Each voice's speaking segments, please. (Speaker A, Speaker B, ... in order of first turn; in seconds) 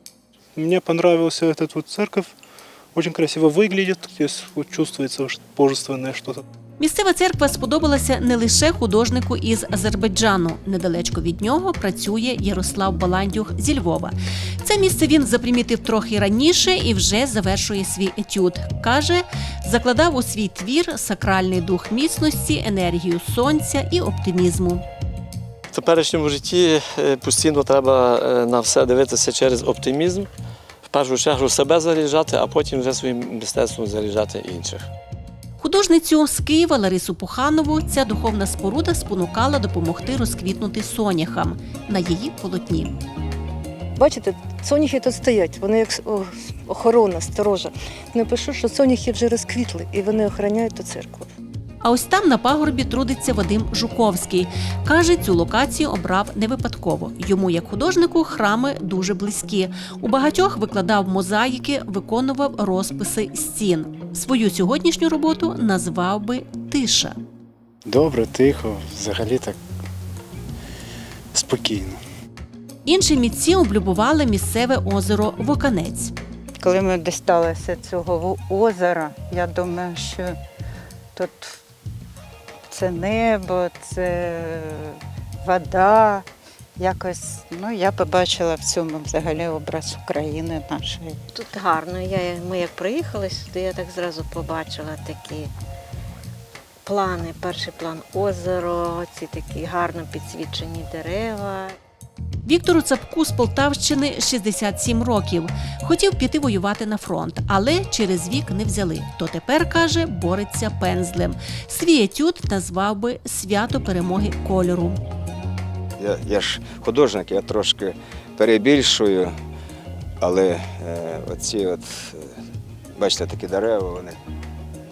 Speaker A: 0.6-2.3, 3.0-6.4
Speaker B: 6.8-24.8, 35.6-43.0, 51.8-67.2, 72.9-76.1, 102.5-115.0
Speaker C: 25.7-30.3, 30.9-34.9
Speaker D: 44.0-51.3
Speaker E: 67.9-69.6, 71.3-72.0
Speaker F: 76.6-80.3, 81.2-81.6, 82.7-86.2, 86.8-91.2
Speaker G: 91.3-95.5, 96.8-101.8
Speaker H: 116.0-119.3, 120.2-122.3, 123.0-124.2